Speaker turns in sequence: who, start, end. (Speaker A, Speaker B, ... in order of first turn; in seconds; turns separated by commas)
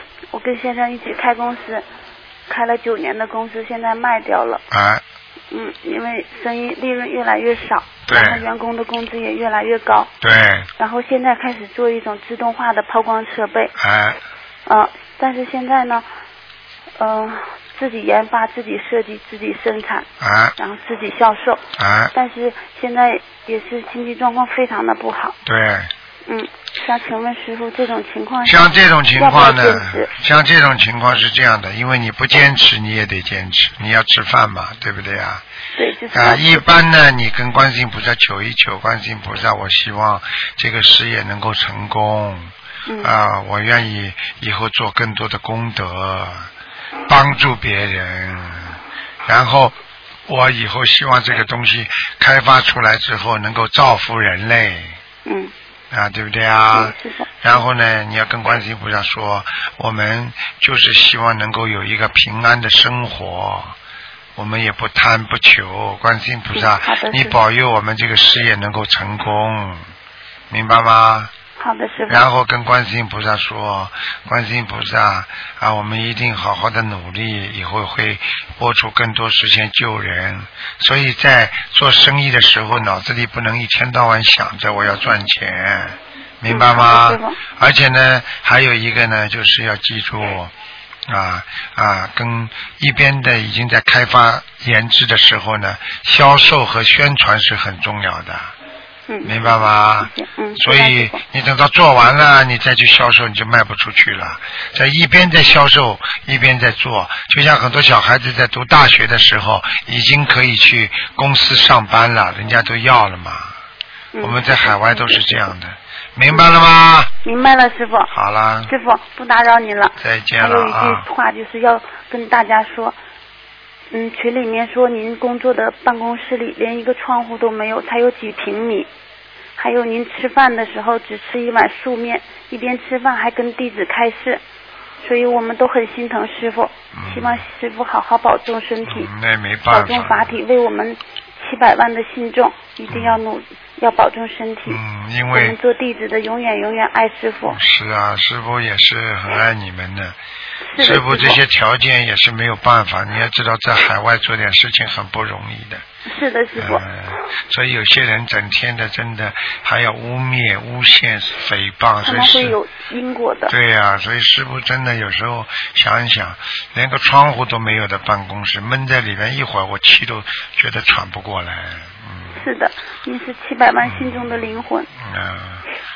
Speaker A: 0.3-1.8, Speaker A: 2.5-4.6, Speaker B: 4.7-5.0, Speaker A: 5.5-10.1, Speaker B: 8.1-8.4, Speaker B: 10.2-10.7, Speaker A: 10.8-13.7, Speaker B: 13.8-14.2, Speaker A: 14.7-16.0, Speaker A: 17.0-25.4, Speaker B: 20.2-20.5, Speaker B: 21.8-22.1, Speaker B: 25.4-25.9, Speaker A: 26.3-30.1, Speaker B: 28.4-35.4, Speaker A: 35.8-36.8, Speaker B: 36.1-46.5, Speaker A: 42.9-43.1, Speaker B: 47.1-49.7, Speaker B: 50.3-55.0, Speaker A: 55.2-55.5, Speaker B: 55.9-63.7, Speaker A: 56.7-57.3, Speaker B: 64.3-69.8, Speaker A: 66.5-67.4, Speaker B: 70.5-71.3, Speaker A: 71.6-72.2, Speaker B: 72.1-90.5, Speaker A: 86.5-87.4, Speaker B: 91.1-98.5, Speaker A: 99.1-101.2, Speaker B: 99.2-113.5, Speaker A: 114.1-115.4, Speaker B: 114.2-117.1, Speaker A: 117.2-118.1, Speaker B: 118.1-118.7, Speaker A: 118.7-123.0, Speaker B: 120.0-121.1, Speaker A: 123.9-128.9, Speaker A: 129.6-134.4, Speaker A: 135.0-139.1, Speaker B: 136.9-137.4, Speaker B: 138.8-140.4, Speaker A: 139.7-144.8, Speaker B: 142.9-143.2, Speaker B: 144.7-145.6, Speaker A: 145.3-147.6, Speaker B: 147.5-150.2, Speaker A: 150.7-151.4, Speaker B: 150.8-155.8, Speaker A: 156.1-156.8, Speaker B: 156.6-162.6, Speaker A: 162.0-163.5, Speaker B: 163.5-172.4, Speaker A: 172.3-174.9, Speaker B: 173.8-175.7